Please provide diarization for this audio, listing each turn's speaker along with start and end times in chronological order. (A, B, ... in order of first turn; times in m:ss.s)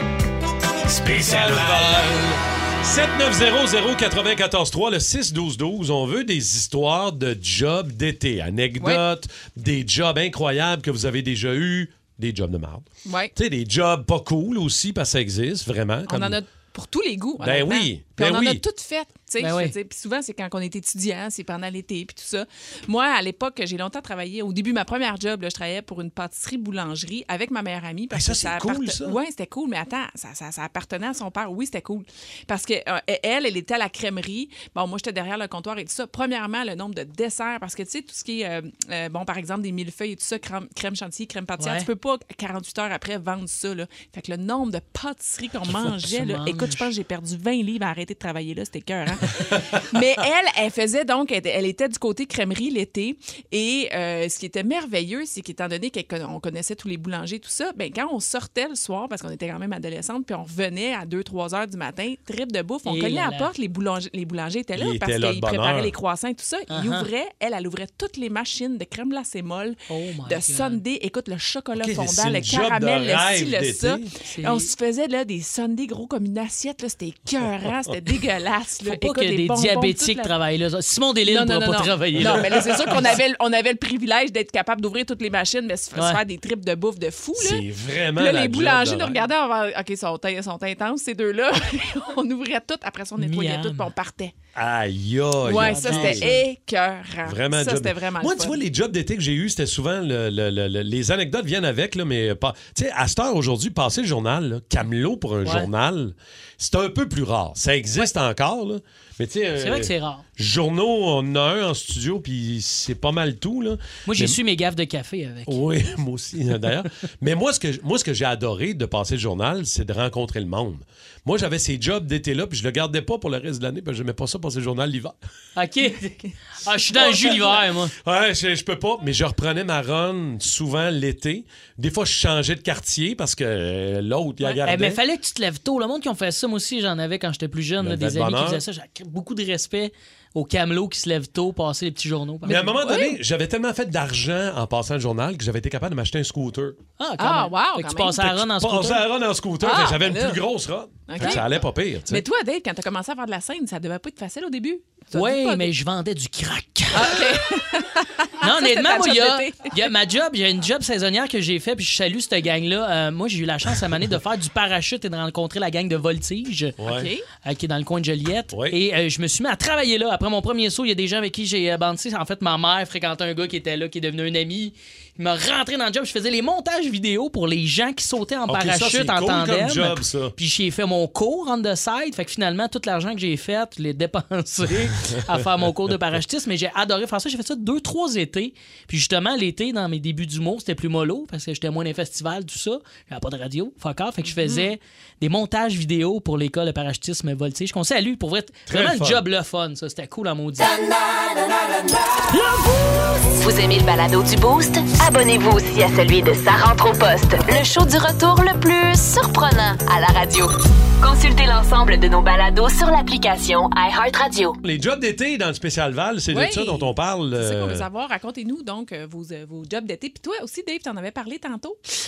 0:00.9-0:16.4 A
0:08.8-0:09.0 B
0:13.0-0:13.3 B
0:16.0-1:20.3 B
0:17.4-0:18.6 A
0:19.4-0:19.7 C
0:28.1-0:29.2 A
0:41.6-0:41.9 C
0:46.0-0:46.9 C
1:02.8-1:03.5 C
1:04.7-1:05.9 A
1:06.7-1:07.1 C
1:09.9-1:10.8 C
1:11.7-1:14.1 A
1:14.2-1:14.7 C
1:18.8-1:22.5 C
1:21.2-1:34.3 B
1:22.2-1:23.1 A
1:27.4-1:29.2 A
1:33.2-1:33.9 C
1:34.5-1:36.4 A
1:35.4-1:38.6 B
1:35.5-1:36.4 C
1:37.2-1:54.4 A
1:45.4-1:45.7 C
1:49.6-1:50.2 C
1:54.1-1:55.6 C
1:55.5-2:05.2 A
2:05.5-2:07.9 C
2:07.1-2:07.5 B
2:08.0-2:15.0 A
2:14.6-2:22.7 C
2:17.8-2:18.6 A
2:22.4-2:23.2 B
2:22.4-2:26.8 A
2:27.0-2:29.0 C
2:27.2-2:28.2 B
2:28.2-2:32.2 A
2:29.6-2:30.4 B
2:31.1-2:35.7 B
2:35.1-2:37.2 C
2:36.9-2:39.8 B
2:38.4-2:46.8 C
2:46.8-2:47.1 A
2:46.8-2:47.2 B
2:47.4-3:20.8 C
2:58.5-3:00.3 A
3:04.8-3:05.1 A
3:14.2-3:14.7 B
3:18.7-3:19.2 A
3:23.4-3:34.6 D
3:34.6-3:37.8 A
3:36.3-3:41.8 B